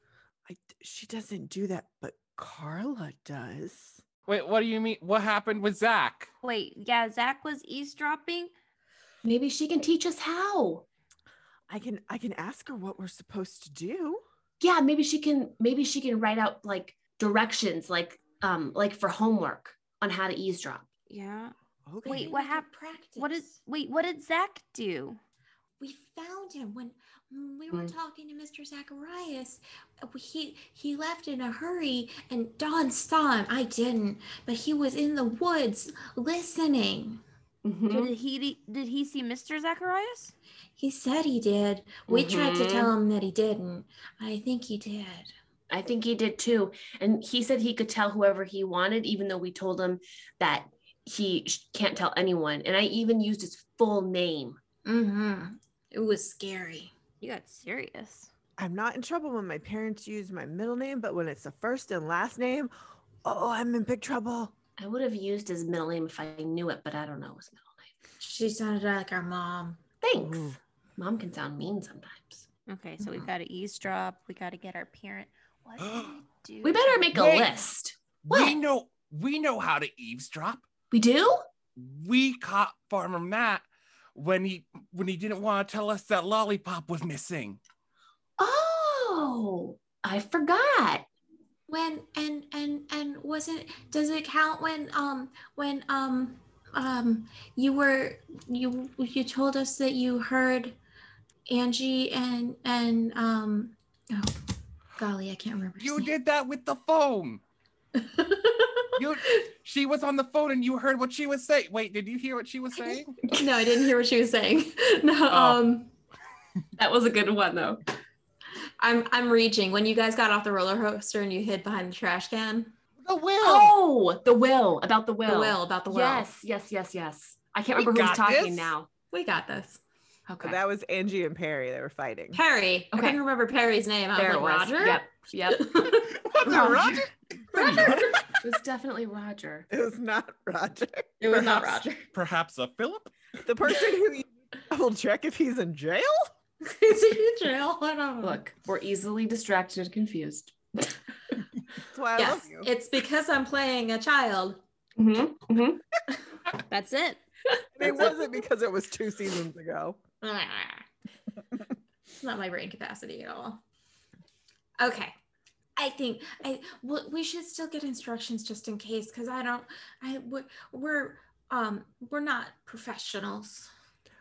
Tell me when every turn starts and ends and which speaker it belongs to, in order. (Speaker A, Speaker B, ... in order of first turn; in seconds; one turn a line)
Speaker A: 0.5-4.0
Speaker B: 4.3-6.3
Speaker C: 6.4-8.5
Speaker D: 9.2-10.8
Speaker A: 11.7-14.2
Speaker D: 14.6-20.9
Speaker C: 21.1-25.2
Speaker A: 21.9-22.4
Speaker E: 22.1-23.5
Speaker E: 25.8-37.2
Speaker D: 37.6-38.1
Speaker C: 37.9-40.4
Speaker E: 40.8-45.3
Speaker D: 42.1-42.9
Speaker D: 45.7-54.6
Speaker E: 54.9-56.9
Speaker C: 57.2-58.3
Speaker A: 58.6-62.7
Speaker A: 63.2-64.5
Speaker D: 64.8-67.9
Speaker E: 68.2-69.8
Speaker D: 70.0-72.5
Speaker A: 70.1-70.6
Speaker C: 72.7-77.1
Speaker E: 73.0-73.3
Speaker B: 75.8-76.2
Speaker D: 76.6-78.6
Speaker B: 77.1-77.6
Speaker B: 78.2-80.7
Speaker D: 80.9-81.5
Speaker B: 81.8-87.6
Speaker D: 88.4-91.1
Speaker E: 91.7-100.8
Speaker E: 101.5-104.4
Speaker E: 105.0-106.1
Speaker B: 105.8-107.4
Speaker E: 108.0-109.3
Speaker B: 109.0-113.2
Speaker E: 112.8-115.9
Speaker B: 115.3-115.6
Speaker D: 116.8-117.8
Speaker E: 118.8-122.8
Speaker B: 123.0-123.8
Speaker D: 123.4-128.9
Speaker E: 125.2-126.3
Speaker B: 127.8-128.7
Speaker E: 129.1-129.8
Speaker D: 130.3-130.6
Speaker A: 130.4-132.4
Speaker E: 132.3-137.0
Speaker D: 132.9-133.2
Speaker D: 134.2-135.8
Speaker B: 136.1-138.1
Speaker E: 137.5-138.1
Speaker D: 137.5-139.7
Speaker A: 137.6-138.0
Speaker A: 139.7-141.5
Speaker E: 141.2-142.1
Speaker B: 141.3-143.1
Speaker A: 143.4-146.3
Speaker E: 146.6-148.4
Speaker D: 148.2-151.0
Speaker A: 151.9-152.7
Speaker E: 152.2-154.6
Speaker D: 155.0-155.8
Speaker C: 156.7-157.2
Speaker A: 157.8-160.0
Speaker E: 160.2-160.8
Speaker E: 162.1-163.6
Speaker E: 164.8-165.2
Speaker E: 165.8-173.7